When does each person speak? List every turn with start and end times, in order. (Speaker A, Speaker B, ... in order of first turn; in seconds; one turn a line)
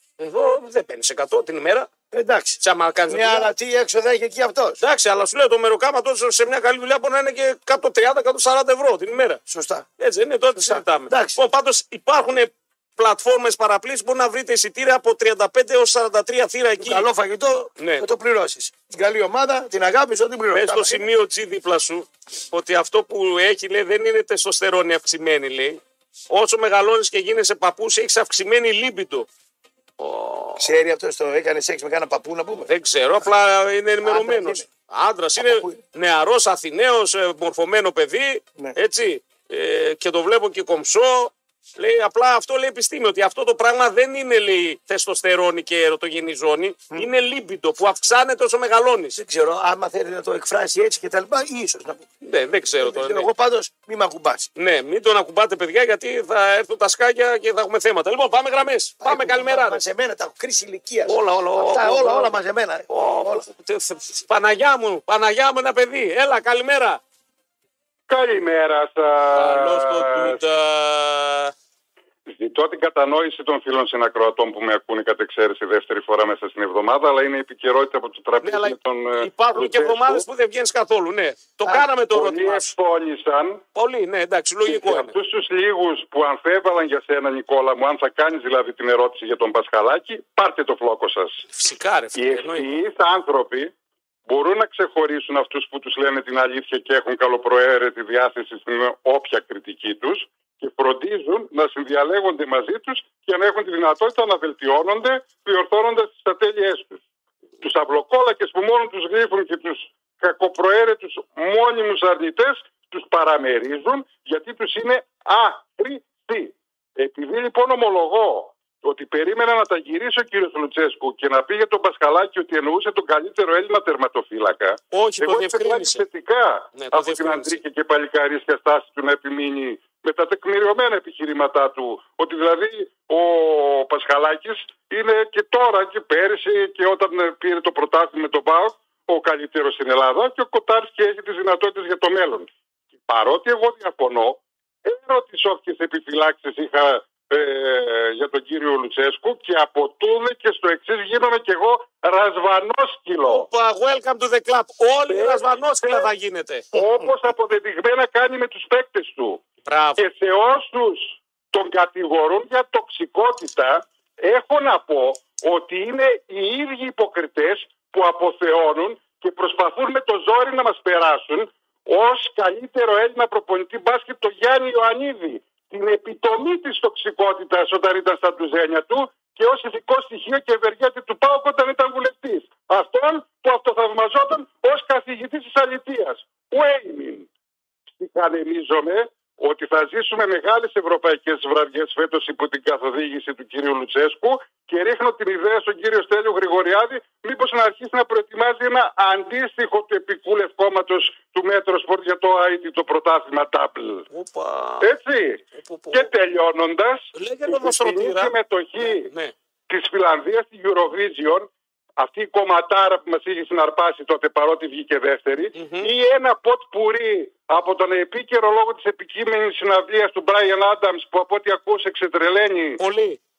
Speaker A: 0.2-1.9
Speaker B: 2.1-4.8
Speaker A: 2.6-3.5
Speaker A: 4.8-9.4
Speaker B: 9.5-9.8
Speaker A: 10.0-17.0
Speaker B: 10.5-11.4
Speaker B: 16.8-21.0
Speaker A: 17.8-18.1
Speaker A: 20.5-25.8
Speaker A: 26.3-29.3
Speaker A: 30.0-30.7
Speaker B: 30.6-32.7
Speaker A: 32.7-49.2
Speaker B: 34.0-34.7
Speaker B: 35.4-35.8
Speaker B: 49.1-52.1
Speaker A: 52.2-53.3
Speaker B: 52.8-54.5
Speaker A: 54.5-59.8
Speaker B: 59.0-63.4
Speaker A: 61.0-62.4
Speaker A: 62.9-67.0
Speaker C: 68.1-70.4
Speaker A: 69.3-71.5
Speaker C: 72.2-80.3
Speaker A: 78.4-82.7
Speaker C: 81.7-83.6
Speaker A: 83.7-85.1
Speaker C: 84.7-91.4
Speaker A: 91.5-92.8
Speaker C: 92.1-93.7
Speaker C: 94.3-107.0
Speaker C: 107.6-142.5
Speaker A: 124.9-126.0
Speaker A: 126.8-127.6
Speaker C: 143.0-153.5
Speaker A: 153.2-156.7
Speaker C: 155.1-156.1
Speaker C: 156.7-159.4
Speaker A: 159.7-160.0
Speaker C: 160.0-187.3
Speaker C: 188.0-204.0
Speaker A: 204.1-204.9
Speaker C: 204.8-205.4
Speaker A: 205.5-206.1
Speaker C: 205.9-209.1
Speaker A: 207.1-209.3
Speaker C: 209.7-222.8
Speaker A: 215.5-215.9
Speaker A: 222.8-223.2